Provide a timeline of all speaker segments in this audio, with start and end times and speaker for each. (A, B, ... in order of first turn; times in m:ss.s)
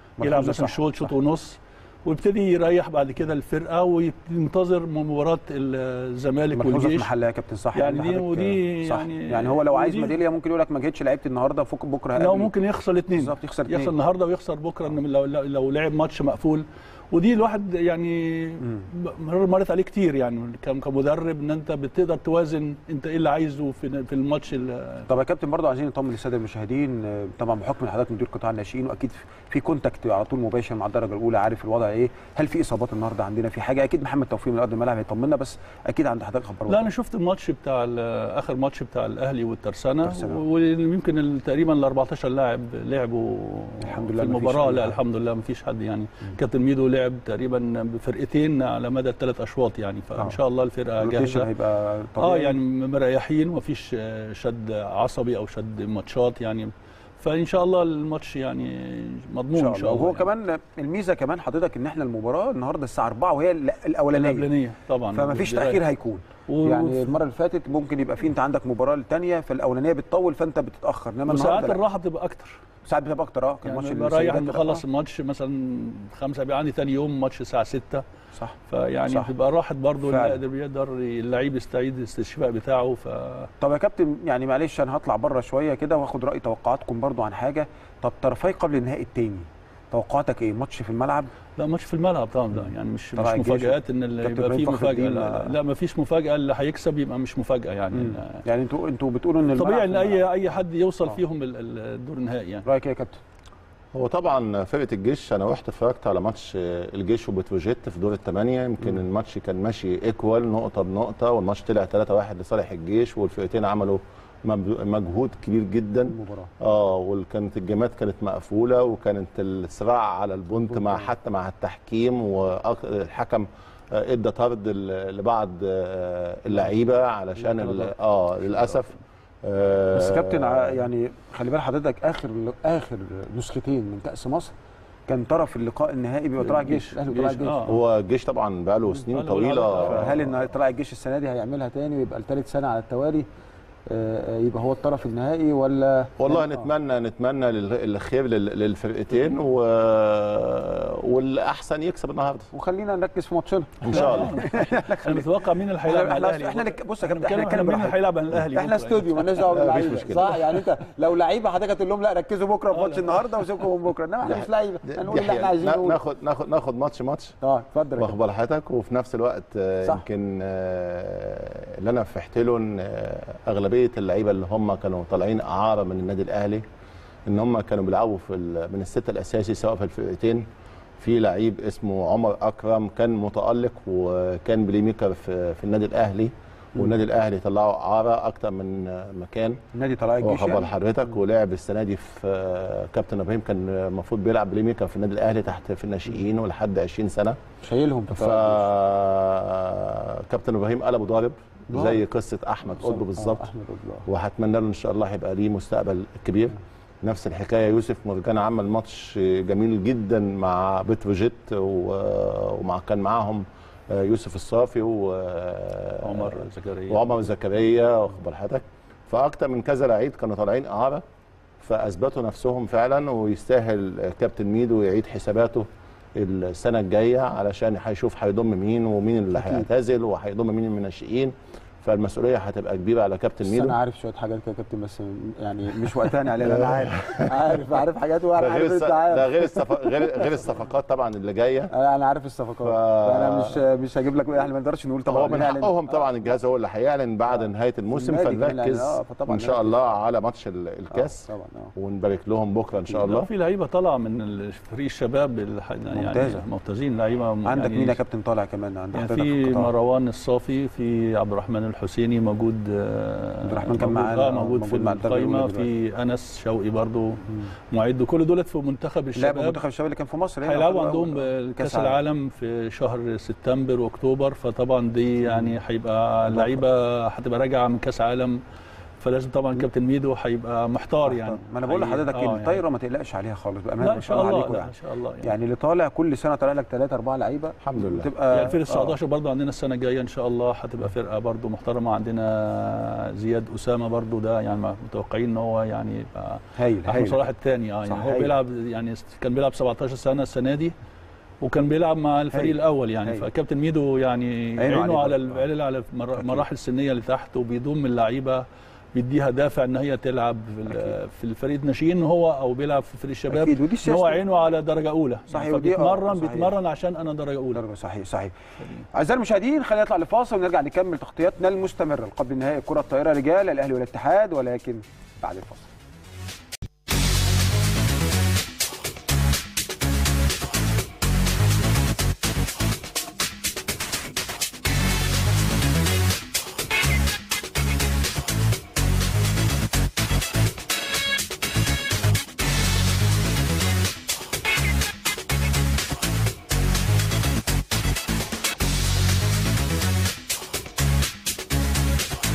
0:00.2-0:01.1 A
0:00.2-0:07.1 B
0:06.5-0:12.5 A
0:07.7-0:10.1 B
0:12.2-0:25.1 B
0:13.1-0:13.9 A
0:25.1-0:36.9 A
0:36.7-0:51.5 B
0:40.0-0:40.4 A
0:43.8-0:45.0 A
0:51.0-0:52.6 A
0:52.2-1:00.3 B
0:59.5-1:04.5 A
1:04.1-1:05.8 B
1:05.1-1:11.8 A
1:06.5-1:07.2 B
1:11.3-1:12.6 B
1:12.8-1:14.8 A
1:13.6-1:18.0 B
1:18.3-1:19.3 A
1:18.7-1:23.5 B
1:20.0-1:20.4 A
1:23.6-1:31.3 A
1:31.6-1:38.4 B
1:33.2-1:35.5 A
1:37.9-1:40.3 A
1:39.5-1:42.6 B
1:42.6-1:43.2 A
1:43.9-2:10.8 C
1:56.1-1:56.5 A
2:00.7-2:01.1 A
2:08.6-2:08.9 B
2:09.9-2:14.5 A
2:15.1-2:17.7 A
2:16.5-2:17.8 B
2:17.6-2:20.1 C
2:19.0-2:20.2 B
2:19.8-2:23.2 A
2:23.9-2:26.7 A
2:26.2-2:32.5 C
2:32.5-2:46.0 A
2:33.8-2:34.4 C
2:33.9-2:39.9 B
2:39.5-2:40.4 C
2:42.7-2:43.2 B
2:44.2-2:47.4 C
2:47.4-2:48.2 A
2:48.0-2:56.6 C
2:57.3-3:00.4 C
3:01.0-3:09.6 C
3:09.7-3:10.7 A
3:10.2-3:17.4 C
3:17.6-3:18.6 A
3:18.1-3:23.5 C
3:21.7-3:22.0 A
3:22.8-3:24.0 A
3:24.0-3:41.0 C
3:36.0-3:37.0 B
3:41.6-3:53.8 C
3:49.4-3:49.7 A
3:53.4-4:00.4 A
3:56.4-3:57.7 C
3:58.4-4:01.7 C
4:01.7-4:06.1 A
4:02.6-4:03.6 C
4:05.0-4:13.3 C
4:07.9-4:09.8 A
4:10.9-4:11.7 A
4:13.1-4:18.0 B
4:15.9-4:16.4 A
4:17.4-4:19.7 A
4:18.9-4:29.6 B
4:23.4-4:25.7 A
4:29.2-4:32.0 A
4:30.4-4:38.4 B
4:35.2-4:35.6 A
4:36.3-4:36.6 A
4:39.0-4:42.6 B
4:41.0-4:49.0 A
4:43.8-4:45.3 B
4:47.6-4:48.1 C
4:48.3-5:00.7 B
4:56.6-4:57.2 A
4:57.8-4:58.3 A
5:01.4-5:17.6 B
5:02.3-5:03.2 A
5:04.6-5:05.4 A
5:10.7-5:10.9 A
5:13.3-5:14.2 A
5:15.3-5:16.5 A
5:17.5-5:18.3 A
5:18.9-5:25.7 A